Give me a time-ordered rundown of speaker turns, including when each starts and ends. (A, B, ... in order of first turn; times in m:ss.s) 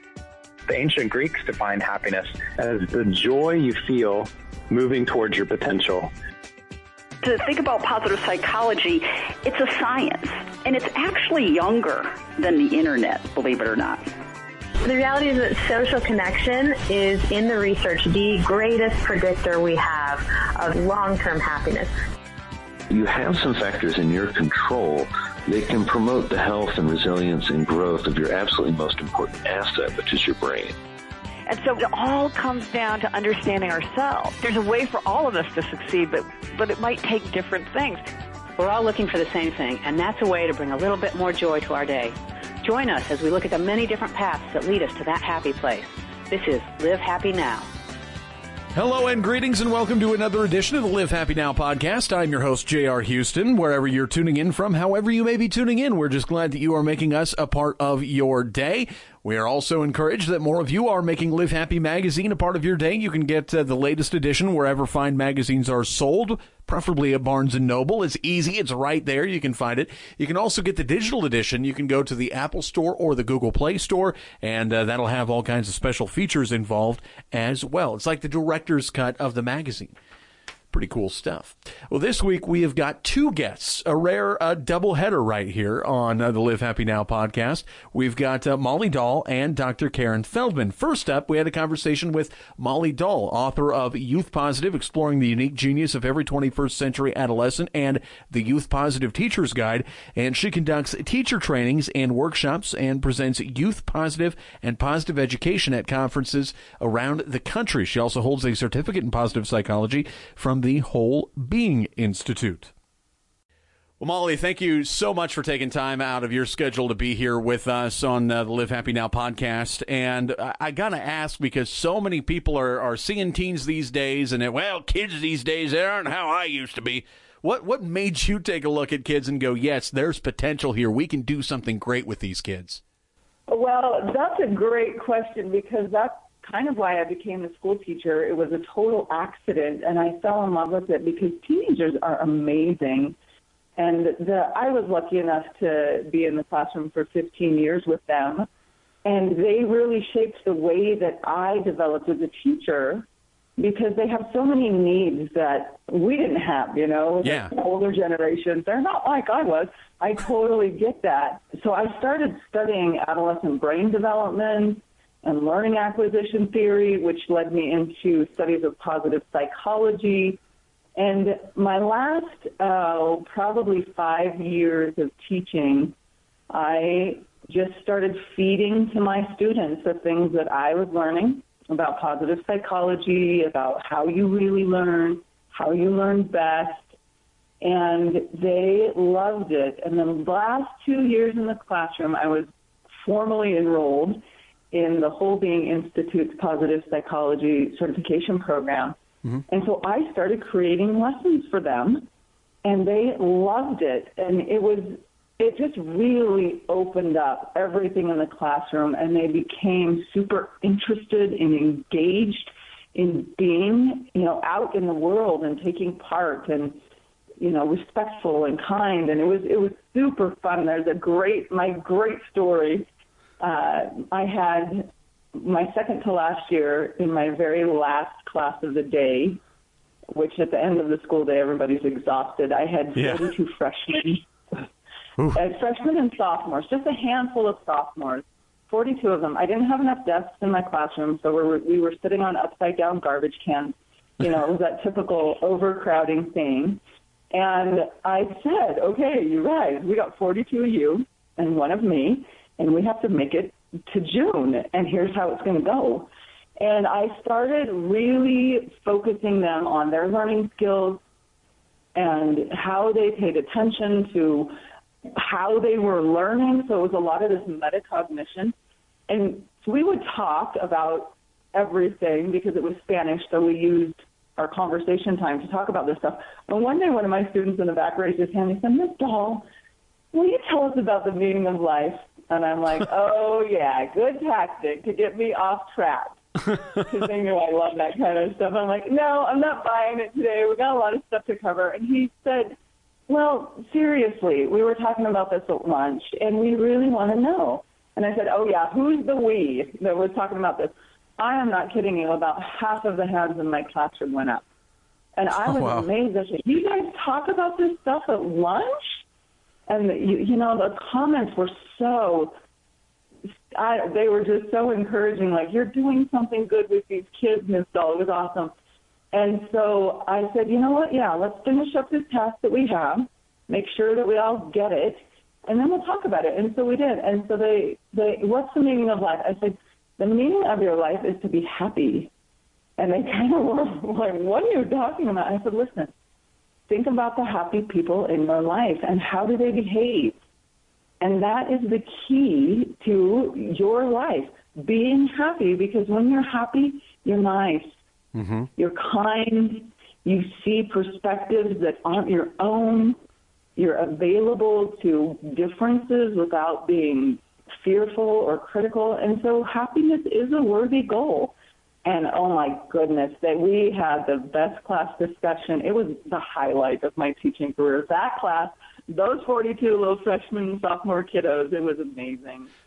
0:00.7-0:06.1 A
0:07.2-0:14.1 B
0:14.8-0:22.0 C
0:22.9-0:30.8 D
0:31.5-0:38.1 E
0:38.6-0:47.7 F
0:48.7-1:19.9 G
1:20.7-1:52.7 G
1:54.0-2:12.8 G
2:13.5-2:23.2 H
2:23.8-2:28.5 H
2:29.0-2:33.1 H
2:33.6-2:50.4 H
2:37.2-2:37.5 G
2:51.0-2:56.0 H
2:56.5-3:06.9 H
3:07.6-3:19.0 H
3:19.5-3:22.1 H
3:22.6-3:36.8 H
3:37.4-3:42.9 H
3:43.4-3:49.4 H
3:50.1-3:54.3 H
3:53.0-3:53.3 G
3:55.3-4:21.0 H
4:22.0-4:28.6 H
4:29.1-4:39.5 H
4:40.1-4:46.2 H
4:46.8-4:52.6 H
4:53.1-5:04.4 H
5:05.2-5:09.0 H
5:05.4-5:05.9 G
5:09.7-5:12.4 H
5:13.5-5:18.5 H
5:19.1-5:32.1 H
5:32.8-5:35.9 H
5:36.7-5:40.2 H
5:41.0-5:47.8 H
5:48.1-5:48.5 G
5:48.6-5:53.0 H
5:53.6-6:12.5 H